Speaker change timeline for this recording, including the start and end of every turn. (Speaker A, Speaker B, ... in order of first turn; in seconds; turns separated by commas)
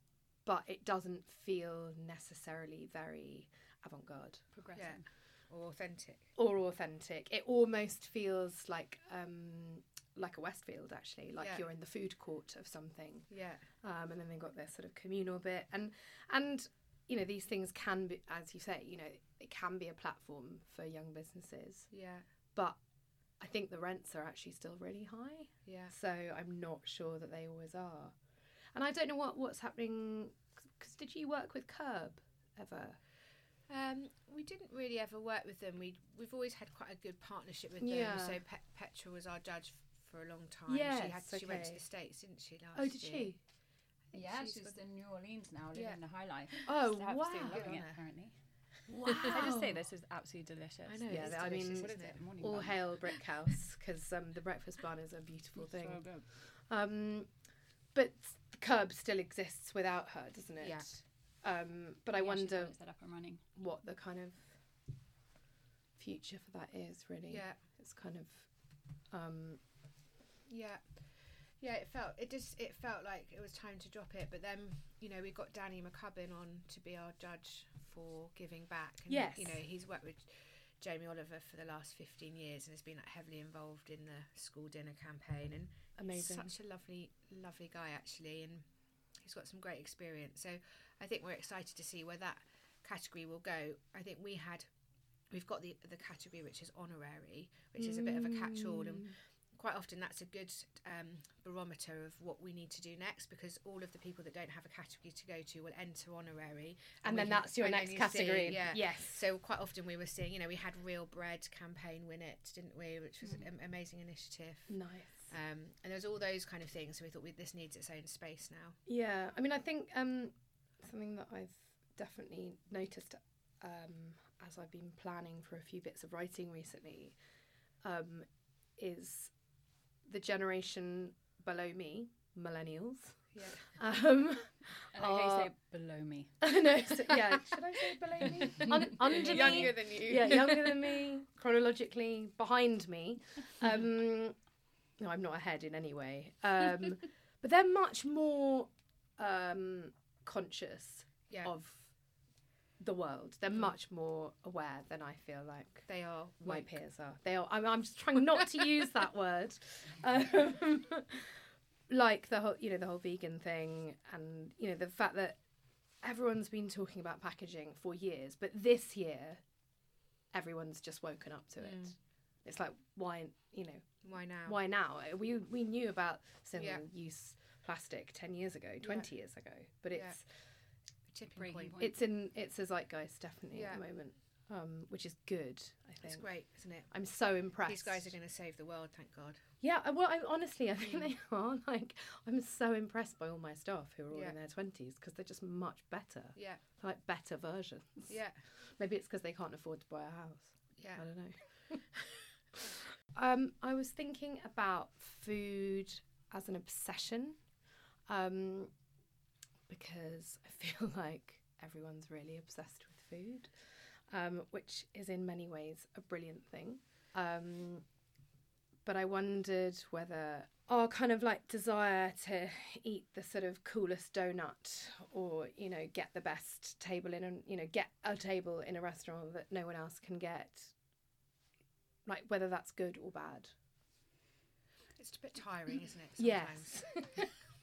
Speaker A: 0.4-4.4, Speaker B: 4.5-5.0, Speaker C: 4.8-6.3, Speaker A: 6.3-13.3, Speaker C: 13.3-13.6, Speaker A: 13.8-21.9, Speaker C: 21.9-22.2, Speaker A: 23.4-28.1, Speaker C: 25.6-25.9, Speaker A: 28.7-33.0, Speaker C: 33.7-43.3, Speaker A: 37.8-38.4, Speaker A: 40.7-41.8, Speaker A: 42.7-43.4, Speaker C: 44.1-44.8, Speaker B: 44.1-48.3, Speaker C: 45.7-46.0, Speaker A: 46.6-47.7, Speaker C: 47.4-48.0, Speaker A: 48.9-49.8, Speaker C: 49.0-49.4, Speaker B: 49.2-51.2, Speaker C: 50.9-52.2, Speaker A: 51.0-57.3, Speaker B: 51.8-52.8, Speaker B: 55.6-56.3, Speaker A: 57.9-62.7, Speaker C: 60.6-60.9, Speaker B: 62.1-63.4, Speaker A: 63.5-64.6, Speaker A: 66.0-68.5, Speaker C: 67.3-67.6, Speaker A: 69.1-69.6, Speaker C: 70.5-71.0, Speaker C: 71.6-88.7, Speaker A: 79.1-79.6, Speaker A: 86.0-86.5, Speaker C: 89.2-94.7, Speaker C: 95.3-118.8, Speaker A: 97.8-99.1, Speaker A: 107.0-109.2, Speaker A: 114.7-115.3, Speaker A: 118.8-127.2, Speaker A: 127.8-129.3, Speaker A: 130.1-135.5, Speaker C: 133.3-133.7, Speaker B: 134.9-136.4, Speaker A: 136.4-144.3, Speaker B: 138.2-139.7, Speaker C: 138.4-140.9, Speaker A: 145.0-151.9, Speaker A: 152.8-155.9, Speaker C: 155.9-156.7, Speaker A: 156.4-165.4, Speaker A: 166.0-169.4, Speaker A: 170.3-180.2, Speaker C: 171.6-171.9, Speaker C: 174.0-174.6, Speaker C: 176.6-176.8, Speaker C: 178.8-179.1, Speaker C: 179.9-180.2, Speaker C: 181.1-181.9, Speaker B: 181.3-181.9, Speaker A: 181.8-186.2, Speaker C: 183.5-183.8, Speaker C: 186.0-186.9, Speaker A: 186.9-188.1, Speaker C: 187.6-189.4, Speaker A: 189.6-201.8, Speaker C: 194.1-194.3, Speaker C: 196.3-196.6, Speaker C: 198.1-198.4, Speaker C: 200.8-201.0, Speaker A: 202.5-207.4, Speaker A: 208.1-208.7, Speaker A: 209.7-213.5, Speaker A: 214.1-217.8, Speaker A: 218.8-230.7, Speaker A: 232.0-233.5, Speaker C: 234.9-236.8, Speaker A: 236.2-237.3